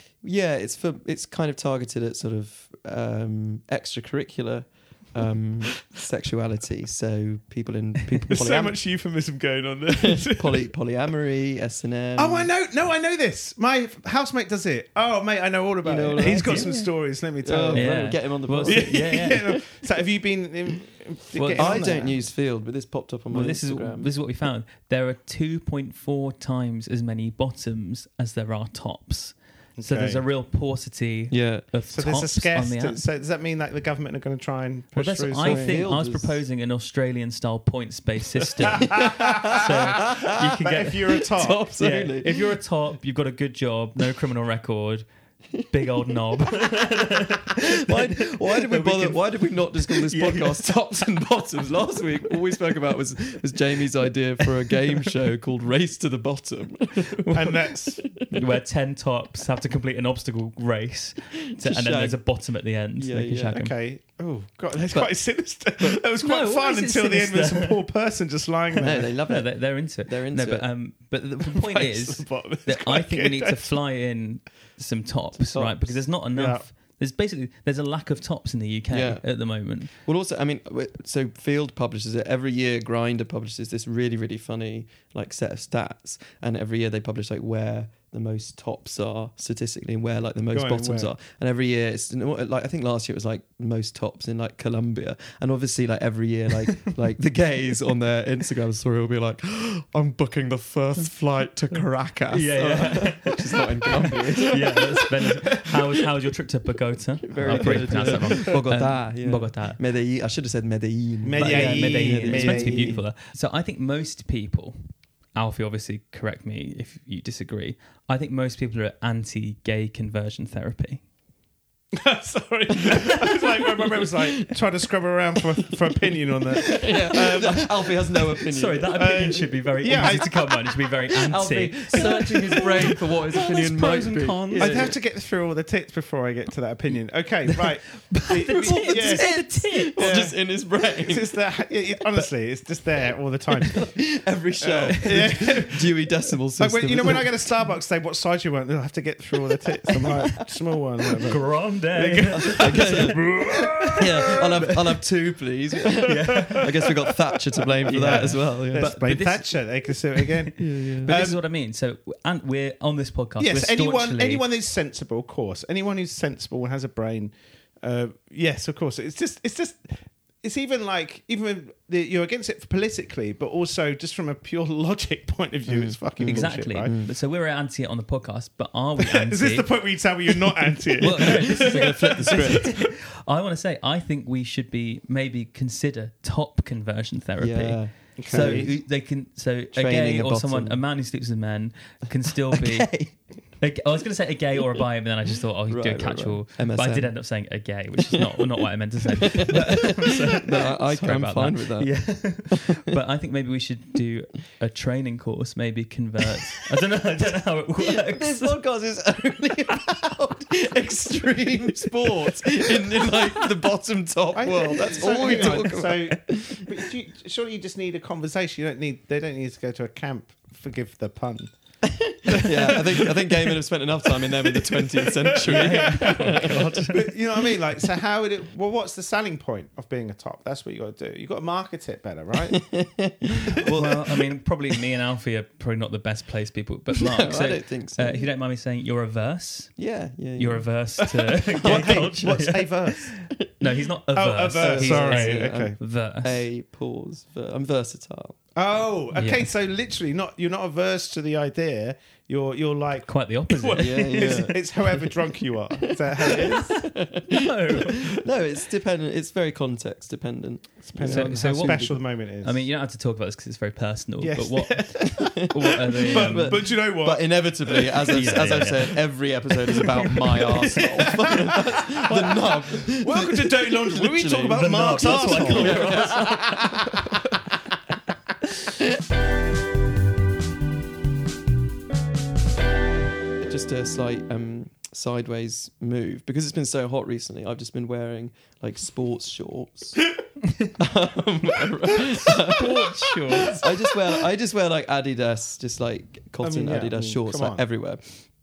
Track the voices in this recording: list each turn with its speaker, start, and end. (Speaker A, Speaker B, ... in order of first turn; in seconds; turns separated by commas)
Speaker A: 0.2-8.8, Speaker B: 8.3-10.7, Speaker A: 9.9-12.5, Speaker B: 12.2-22.2, Speaker A: 15.8-16.7, Speaker C: 16.2-16.9, Speaker A: 17.4-19.6, Speaker C: 17.7-19.5, Speaker C: 21.4-22.0, Speaker A: 21.6-24.1, Speaker C: 23.3-33.0, Speaker B: 29.8-30.2, Speaker A: 31.3-31.7, Speaker B: 31.9-35.9, Speaker C: 34.9-45.0, Speaker A: 35.4-36.4, Speaker A: 38.7-42.5, Speaker B: 38.8-41.7, Speaker C: 45.7-49.2, Speaker A: 47.6-58.4, Speaker C: 49.8-50.8, Speaker C: 57.2-57.5, Speaker B: 57.3-58.1, Speaker C: 58.3-63.7, Speaker A: 61.6-62.2, Speaker A: 63.0-63.6, Speaker B: 63.5-69.2, Speaker C: 66.1-67.8, Speaker A: 68.8-69.5, Speaker C: 69.2-79.9, Speaker A: 70.1-70.7, Speaker B: 71.5-73.8, Speaker A: 75.3-76.0, Speaker B: 76.3-76.7, Speaker A: 78.9-79.3, Speaker A: 80.0-105.1, Speaker B: 90.5-91.1, Speaker C: 101.7-109.8, Speaker A: 107.2-113.0, Speaker B: 107.5-108.4, Speaker B: 111.2-113.0, Speaker C: 111.4-121.0, Speaker B: 121.9-128.3, Speaker A: 122.8-124.6, Speaker A: 126.1-130.3, Speaker C: 128.5-135.0, Speaker B: 128.9-130.5, Speaker A: 131.1-134.9, Speaker B: 131.9-133.0, Speaker B: 134.5-143.9, Speaker C: 137.5-140.2, Speaker A: 138.5-141.3, Speaker A: 143.7-147.3, Speaker B: 144.6-154.8, Speaker C: 145.0-145.3, Speaker C: 151.2-154.9, Speaker A: 152.4-153.3, Speaker A: 153.9-158.9, Speaker C: 156.0-156.8, Speaker B: 156.3-157.2, Speaker B: 157.8-161.4, Speaker C: 157.9-160.3, Speaker A: 160.6-161.2, Speaker C: 161.0-164.4, Speaker B: 163.4-176.9, Speaker A: 175.7-177.1, Speaker C: 176.3-179.7, Speaker B: 179.0-182.7, Speaker A: 181.0-182.7, Speaker C: 181.0-192.9, Speaker A: 187.4-188.8, Speaker B: 188.2-188.7, Speaker A: 189.7-190.8, Speaker A: 192.5-193.1, Speaker C: 193.6-208.6, Speaker A: 195.7-197.1, Speaker A: 198.0-198.4, Speaker A: 199.2-202.0, Speaker A: 202.5-203.0, Speaker A: 207.8-216.8, Speaker C: 213.0-213.4, Speaker B: 214.3-221.5, Speaker A: 221.8-226.9, Speaker B: 222.3-232.6, Speaker C: 225.4-227.1, Speaker A: 232.4-234.2, Speaker C: 233.6-239.8, Speaker A: 236.9-238.3, Speaker A: 239.8-240.7, Speaker C: 240.4-246.4, Speaker B: 241.1-243.1, Speaker A: 241.5-242.2, Speaker B: 244.1-245.8, Speaker A: 244.6-248.4, Speaker B: 248.6-256.9, Speaker C: 249.1-249.5, Speaker C: 253.1-254.7, Speaker A: 253.7-262.0, Speaker C: 257.3-258.1, Speaker B: 260.9-262.6, Speaker C: 261.0-266.6, Speaker B: 264.2-269.0, Speaker A: 265.1-276.8, Speaker C: 268.1-268.9, Speaker B: 269.7-277.1, Speaker C: 269.8-270.9, Speaker C: 274.5-276.6, Speaker A: 283.4-290.1, Speaker C: 290.5-290.7, Speaker A: 290.8-298.2, Speaker C: 292.2-293.6, Speaker B: 293.3-293.7, Speaker B: 296.4-297.6